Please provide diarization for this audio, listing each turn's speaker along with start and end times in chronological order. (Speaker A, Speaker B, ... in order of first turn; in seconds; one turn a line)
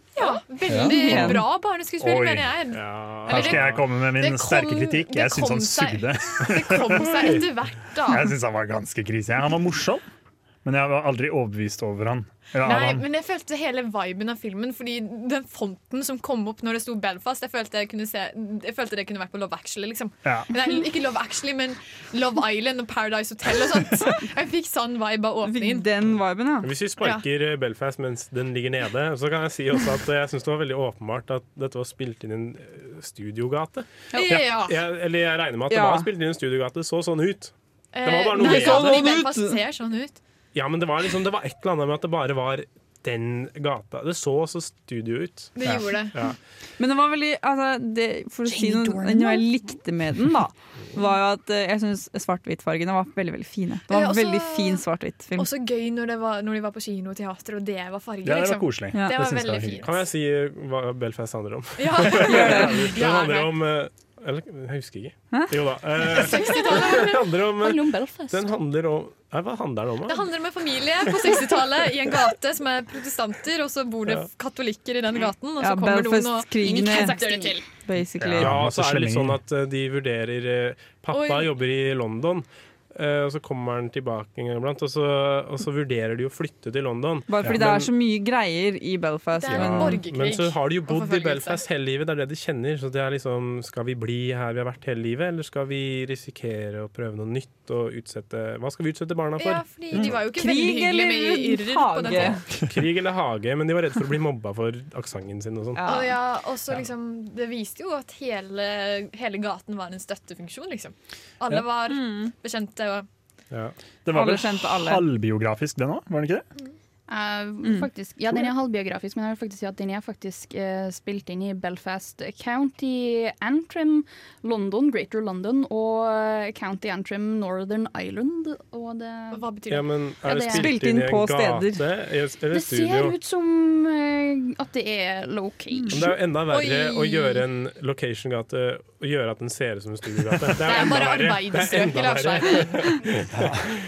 Speaker A: 0.1-8.3
Speaker B: 0.7-1.4
Speaker C: 0.8-1.4
Speaker B: 2.0-2.6
Speaker D: 2.7-3.8
Speaker B: 3.3-7.2
Speaker D: 7.0-7.5
Speaker B: 8.1-10.0
Speaker B: 10.6-13.0
Speaker A: 12.6-25.9
Speaker C: 25.4-26.7
Speaker D: 26.6-33.9
Speaker A: 27.0-27.2
Speaker A: 34.1-34.8
Speaker D: 34.5-37.5
Speaker C: 35.7-36.1
Speaker A: 37.9-40.2
Speaker D: 38.0-39.0
Speaker C: 38.4-39.6
Speaker D: 40.5-46.3
Speaker A: 45.5-46.1
Speaker C: 46.8-55.5
Speaker E: 48.5-49.5
Speaker A: 53.9-54.8
Speaker A: 55.4-60.0
Speaker B: 58.2-59.8
Speaker D: 59.8-70.3
Speaker A: 61.8-63.6
Speaker C: 62.2-62.9
Speaker A: 66.0-67.2
Speaker E: 66.3-67.0
Speaker E: 67.6-68.5
Speaker A: 70.1-77.6
Speaker C: 75.6-77.2
Speaker E: 76.6-77.6
Speaker C: 77.8-78.6
Speaker B: 78.2-79.4
Speaker D: 78.4-87.8
Speaker A: 81.1-81.5
Speaker C: 87.3-90.0
Speaker A: 89.3-91.6
Speaker D: 89.5-100.2
Speaker A: 99.4-102.4
Speaker C: 100.3-102.4
Speaker D: 102.6-106.0
Speaker C: 105.8-106.2
Speaker A: 105.8-113.1
Speaker C: 111.9-112.3
Speaker B: 114.0-116.4
Speaker C: 114.1-115.1
Speaker E: 117.1-129.4
Speaker A: 129.3-129.9
Speaker D: 129.7-133.2
Speaker E: 130.2-130.8
Speaker C: 130.5-131.8
Speaker E: 132.5-136.1
Speaker D: 135.9-143.6
Speaker A: 136.5-137.4
Speaker A: 140.6-143.1
Speaker B: 143.3-143.6